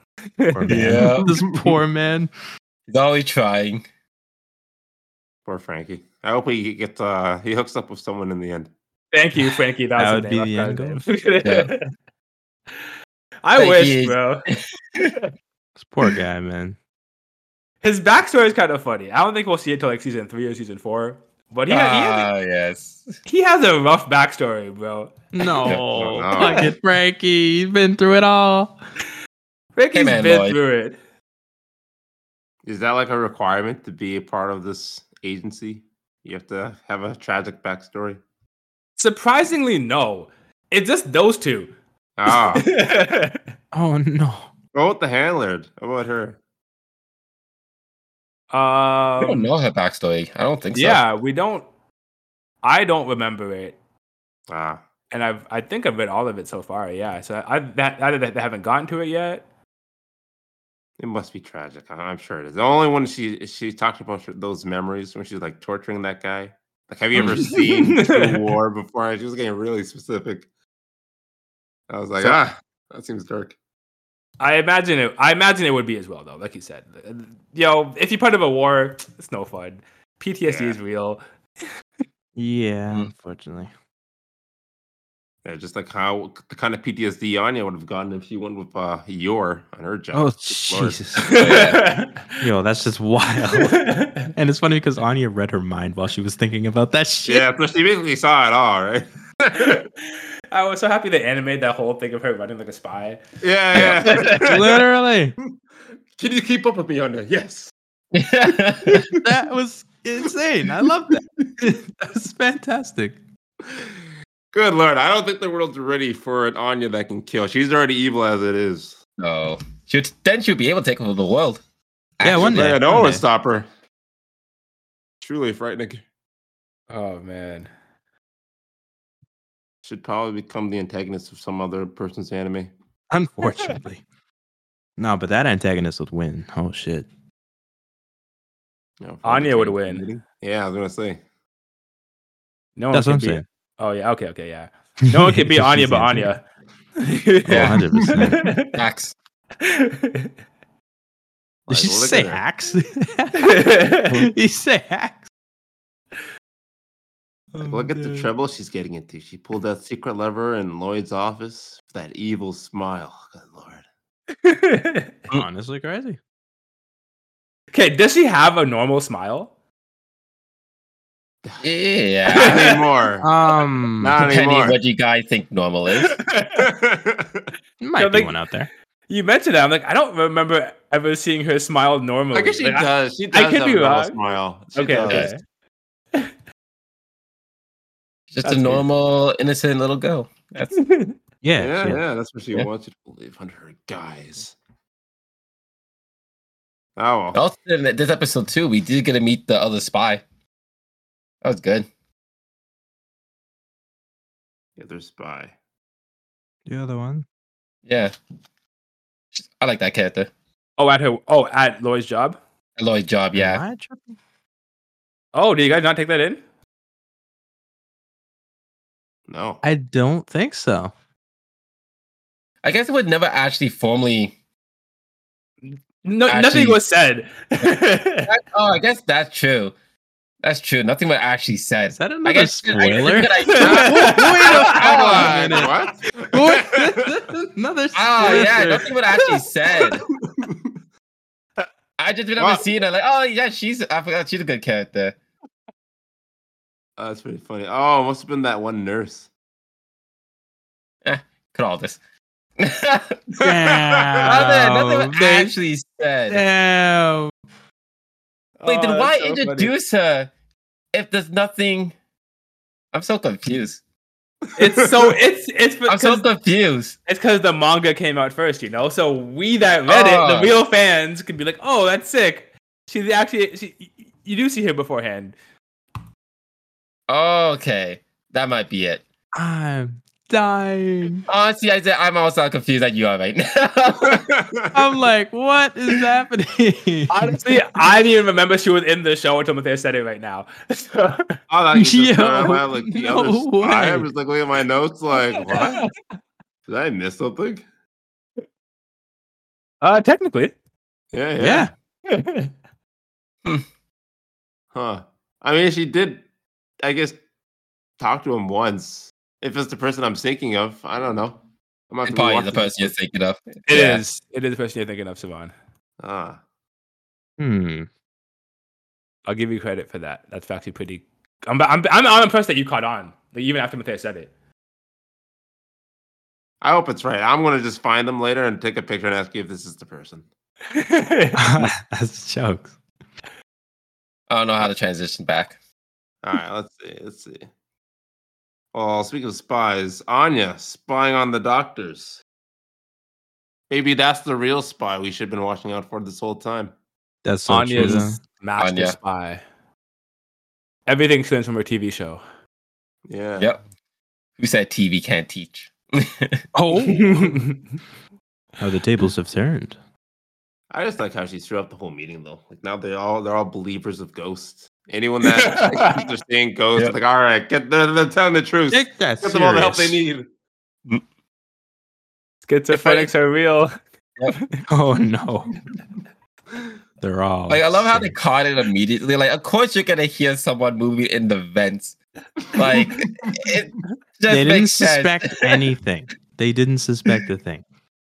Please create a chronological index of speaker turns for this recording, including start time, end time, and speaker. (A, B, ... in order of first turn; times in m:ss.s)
0:00.4-0:01.0 A
0:00.5-0:02.3 B
0:00.7-0:01.4 C
0:02.9-0:03.8 C
0:05.4-0:08.7 D
0:09.1-0:11.9 A
0:10.0-0:11.0 B
0:11.4-0:11.7 C
0:13.4-0:14.4 A
0:13.6-0:15.1 C
0:15.8-0:16.8 B
0:17.8-0:22.3 A
0:21.7-0:23.1 C
0:23.2-0:25.6 A
0:25.3-0:28.8 B
0:25.7-0:26.7 D
0:26.3-0:26.7 A
0:29.8-0:31.0 A
0:29.9-0:30.6 C
0:32.6-0:38.2 D
0:39.0-0:41.7 A
0:42.2-0:42.7 D
0:42.3-0:43.4 A
0:43.7-0:44.5 B
0:44.7-0:46.4 D
0:48.5-0:49.5 A
0:49.2-0:51.0 C
0:50.7-0:51.6 A
0:52.6-0:53.7 A
0:54.5-0:54.8 D
0:55.1-0:59.4 A
1:01.0-1:10.5 D
1:07.5-1:08.5 A
1:11.9-1:13.6 D
1:14.4-1:21.2 A
1:20.4-1:20.8 D
1:22.4-1:23.7 B
1:25.4-1:31.1 D
1:30.1-1:31.6 B
1:31.2-1:32.4 A
1:31.3-1:31.8 C
1:32.4-1:37.5 B
1:33.5-1:34.3 A
1:37.2-1:39.8 D
1:39.6-1:43.2 A
1:43.4-1:44.8 D
1:43.7-1:44.0 C
1:44.0-1:44.6 A
1:44.4-1:45.4 B
1:46.2-1:47.7 D
1:48.1-1:49.1 C
1:48.5-1:49.2 D
1:49.1-1:53.2 B
1:54.5-1:59.0 D
1:59.2-2:01.6 C
2:02.2-2:02.5 C
2:02.2-2:03.2 B
2:02.4-2:03.7 D
2:05.2-2:06.0 D
2:06.9-2:07.7 A
2:09.8-2:12.7 D
2:13.1-2:14.0 B
2:15.0-2:17.1 B
2:19.0-2:21.2 D
2:19.2-2:20.0 A
2:22.8-2:26.4 A
2:22.9-2:23.4 B
2:25.1-2:26.3 B
2:27.0-2:28.8 A
2:27.4-2:28.5 B
2:27.5-2:27.9 C
2:28.7-2:29.1 C
2:29.6-2:30.3 A
2:31.7-2:32.4 D
2:31.7-2:35.3 B
2:33.4-2:34.2 A
2:37.5-2:38.3 B
2:37.6-2:43.8 D
2:44.4-2:45.1 A
2:45.3-2:46.2 B
2:47.7-2:49.5 A
2:51.6-2:52.7 C
2:52.3-2:52.7 A
2:52.3-2:53.3 D
2:53.2-2:54.2 B
2:54.0-2:54.8 D
2:54.2-2:56.2 C
2:55.9-2:56.6 A
2:56.6-2:57.5 D
2:57.8-2:58.7 B
2:58.0-2:58.4 A
2:59.1-3:04.2 A
3:02.3-3:05.3 D
3:04.7-3:05.4 A
3:08.3-3:10.8 C
3:08.4-3:08.8 A
3:10.7-3:11.1 A
3:11.4-3:12.0 B
3:11.6-3:14.5 D
3:17.0-3:17.4 D
3:17.3-3:20.2 C
3:21.4-3:21.9 C
3:24.8-3:25.5 D
3:26.6-3:27.2 B
3:27.8-3:28.1 C
3:29.3-3:30.3 C
3:30.8-3:32.4 A
3:32.8-3:33.6 C
3:33.3-3:34.2 B
3:35.3-3:36.4 A
3:39.3-3:39.6 D
3:39.6-3:40.9 B
3:42.6-3:44.3 C
3:45.6-3:48.3 A
3:46.3-3:46.8 C
3:48.3-3:49.7 C
3:50.4-3:55.7 C
3:51.9-3:59.0 B
3:53.4-3:54.6 A
3:53.6-3:53.9 D
3:54.5-3:57.1 D
3:57.9-4:00.0 C
4:00.3-4:00.7 D
4:02.0-4:05.2 C
4:02.4-4:02.6 D
4:07.0-4:09.3 D
4:11.0-4:12.0 C
4:12.6-4:13.2 C
4:13.4-4:14.3 D
4:13.4-4:15.5 B
4:14.2-4:16.4 C
4:16.3-4:17.3 B
4:18.6-4:19.7 A
4:18.6-4:20.3 C
4:20.9-4:21.9 C
4:22.9-4:23.8 C
4:24.6-4:26.2 A
4:24.6-4:24.9 D
4:25.9-4:27.0 C
4:27.1-4:35.3 A
4:29.9-4:30.6 C
4:37.1-4:39.0 C
4:39.3-4:41.2 B
4:41.3-4:44.2 C
4:44.0-4:44.8 D
4:44.7-4:47.6 B
4:47.1-4:51.3 A
4:51.5-4:55.8 D
4:51.7-4:54.1 B
4:55.5-4:55.9 A
4:56.7-4:57.6 D
4:59.8-5:00.5 A
5:01.1-5:01.7 D
5:01.4-5:01.7 B
5:02.1-5:02.5 A
5:04.7-5:06.2 D
5:06.8-5:07.2 D
5:08.0-5:11.4 D
5:11.9-5:12.9 D
5:12.0-5:14.0 C
5:13.7-5:15.5 A
5:16.0-5:16.4 D
5:17.4-5:17.9 B
5:19.2-5:24.3 A
5:26.6-5:30.2 D
5:30.7-5:31.7 A
5:31.4-5:32.7 B
5:34.3-5:35.6 C
5:36.2-5:37.5 D
5:38.7-5:42.2 D
5:43.7-5:46.7 D
5:47.2-5:48.2 B
5:47.5-5:49.4 A
5:48.6-5:49.0 C
5:50.9-5:52.2 A
5:53.1-5:53.6 D
5:54.4-5:56.4 C
5:56.5-5:57.4 B
5:56.7-5:57.6 A
5:58.6-5:59.8 B
6:00.7-6:10.3 D
6:05.4-6:06.0 A
6:08.7-6:10.0 B
6:12.4-6:13.7 A
6:12.7-6:13.1 C
6:14.7-6:15.5 B
6:17.0-6:18.2 B
6:17.5-6:22.0 C
6:22.5-6:25.6 C
6:22.7-6:23.5 D
6:24.3-6:27.6 B